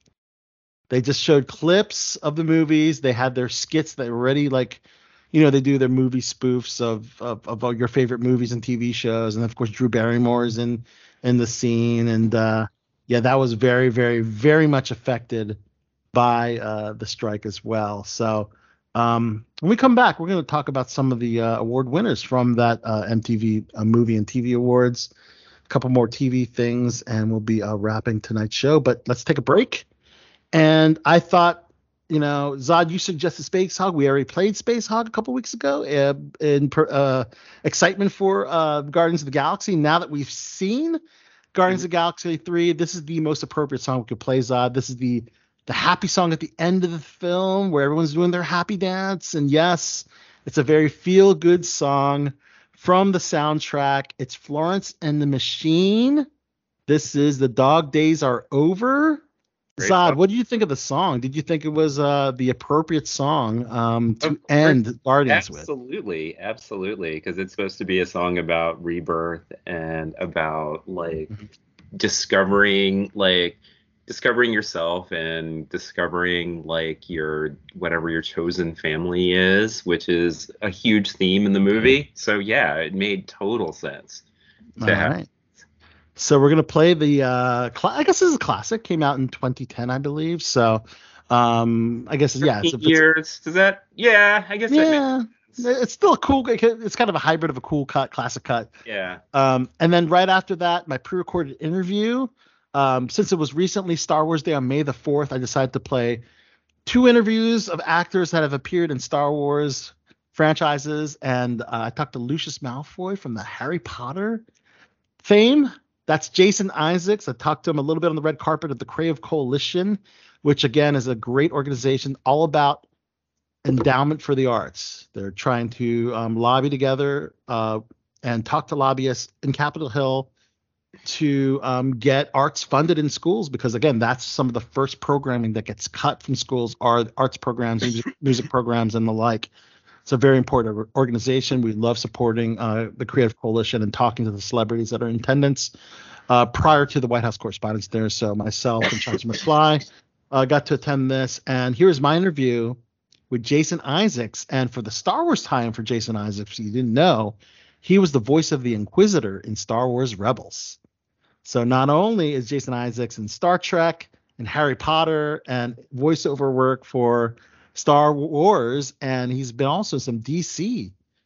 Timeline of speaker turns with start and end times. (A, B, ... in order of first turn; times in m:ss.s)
0:00.9-0:15.6 A
0:16.1-0:25.1 A
0:25.7-0:29.8 A
0:30.5-0:41.0 A
0:41.5-0:56.3 A
0:56.9-0:59.2 A
0:59.8-1:00.2 B
0:59.8-1:05.7 A
1:04.2-1:11.3 B
1:11.9-1:24.2 B
1:24.8-1:25.2 A
1:24.8-1:25.2 B
1:26.2-1:33.0 A
1:32.4-1:35.6 B
1:34.7-1:38.7 A
1:38.8-1:39.2 B
1:39.3-1:46.2 A
1:46.8-1:54.4 A
1:55.2-2:02.8 A
2:03.6-2:10.3 A
2:11.0-2:19.5 A
2:20.0-2:25.7 A
2:26.3-2:32.8 A
2:33.3-2:40.8 A
2:41.4-2:50.9 A